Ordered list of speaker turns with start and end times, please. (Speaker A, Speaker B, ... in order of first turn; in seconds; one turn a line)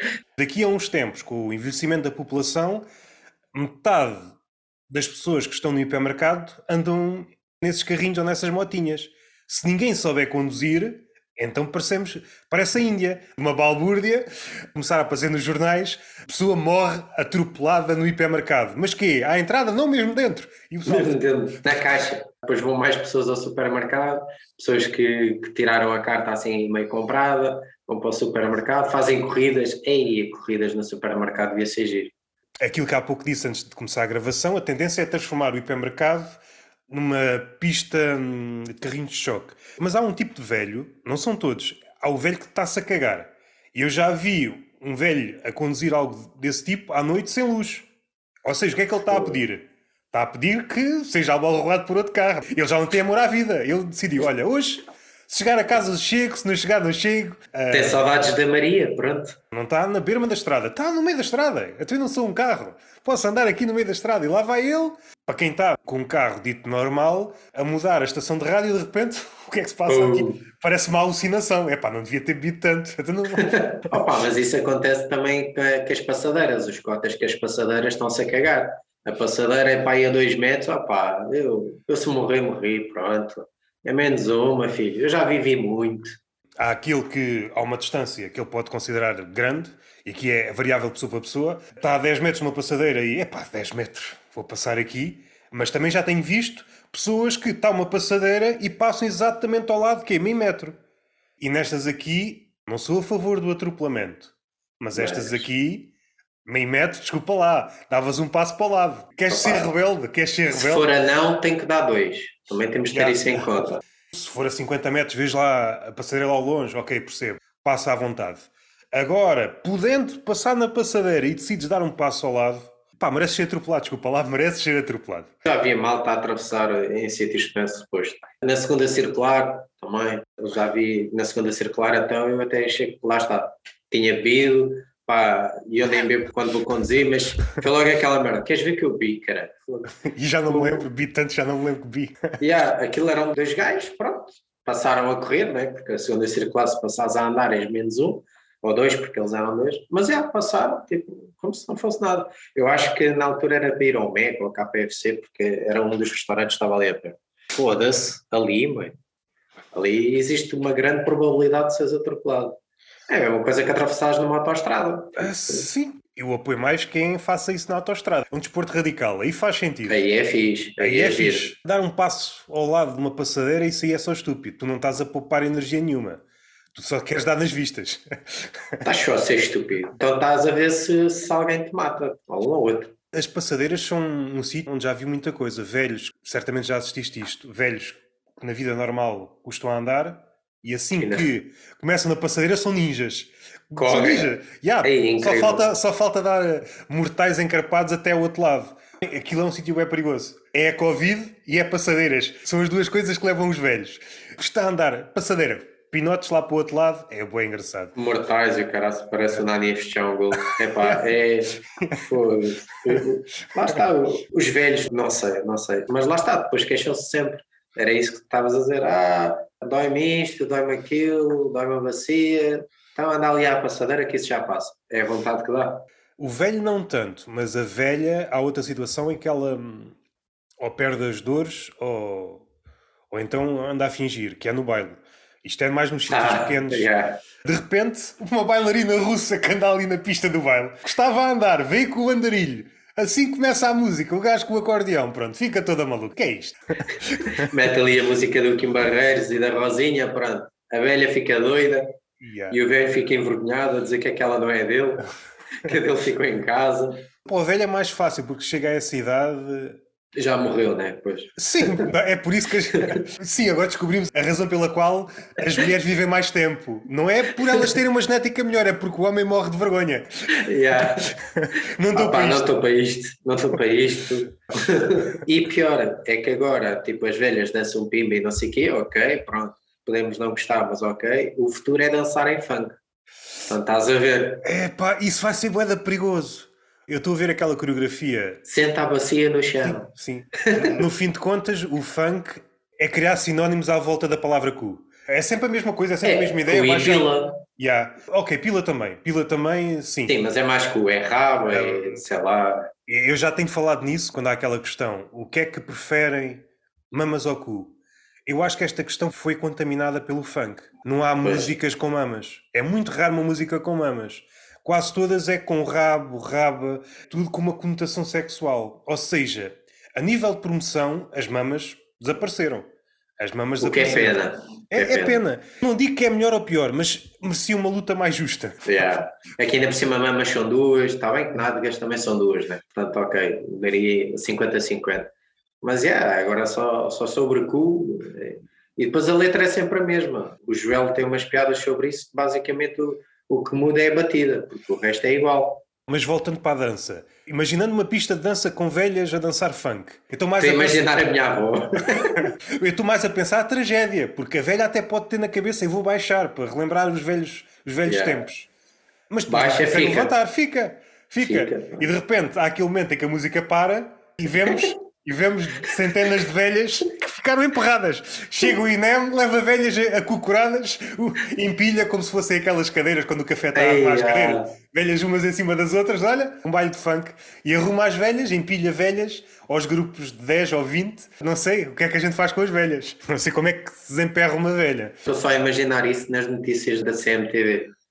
Speaker A: 0.4-2.8
Speaker A: 3.5-4.3
Speaker A: 4.9-21.2
Speaker B: 20.9-32.1
Speaker A: 32.6-47.9
Speaker A: 48.4-58.0
Speaker B: 49.1-49.4
Speaker B: 57.7-59.4
Speaker A: 59.5-73.9
Speaker B: 69.9-70.4
Speaker B: 73.3-86.2
Speaker A: 86.6-100.8
Speaker A: 101.4-105.9
Speaker B: 104.9-105.4
Speaker A: 106.5-110.9
Speaker B: 109.3-109.7
Speaker B: 110.5-113.8
Speaker A: 112.9-113.5
Speaker A: 114.1-125.3
Speaker B: 125.4-140.8
Speaker A: 140.0-142.4
Speaker B: 142.4-158.9
Speaker B: 159.7-162.6
Speaker B: 163.1-165.7
Speaker A: 165.2-170.0
Speaker B: 169.9-171.5
Speaker A: 170.8-176.2
Speaker A: 176.7-178.8
Speaker B: 178.8-182.9
Speaker A: 183.1-207.9
Speaker B: 191.0-191.3
Speaker B: 193.8-194.3
Speaker B: 194.8-195.7
Speaker B: 207.9-225.8
Speaker A: 211.8-212.0
Speaker A: 226.2-229.9
Speaker A: 230.6-232.4
Speaker A: 233.1-236.9
Speaker B: 236.1-237.2
Speaker A: 237.4-247.5
Speaker B: 247.3-251.9
Speaker A: 252.2-252.6
Speaker B: 252.5-255.1
Speaker B: 255.6-257.1
Speaker A: 257.2-259.8
Speaker B: 260.1-261.9
Speaker A: 261.4-272.5
Speaker B: 270.3-271.1
Speaker B: 271.9-282.8
Speaker B: 283.4-284.4
Speaker A: 284.4-288.4
Speaker B: 288.4-289.9
Speaker A: 289.6-300.1
Speaker B: 290.4-290.8
Speaker B: 296.0-297.4
Speaker B: 300.1-302.7
Speaker A: 301.5-302.0
Speaker A: 302.9-322.7
Speaker B: 311.2-311.5
Speaker A: 323.2-328.8
Speaker B: 323.6-325.2
Speaker B: 328.6-335.1
Speaker B: 335.6-345.6
Speaker A: 345.9-350.9
Speaker B: 350.4-352.3
Speaker A: 352.0-358.5
Speaker B: 357.9-358.2
Speaker A: 359.1-384.9
Speaker B: 359.3-360.1
Speaker B: 361.2-361.9
Speaker B: 364.5-364.7
Speaker B: 373.5-374.5
Speaker B: 385.1-387.7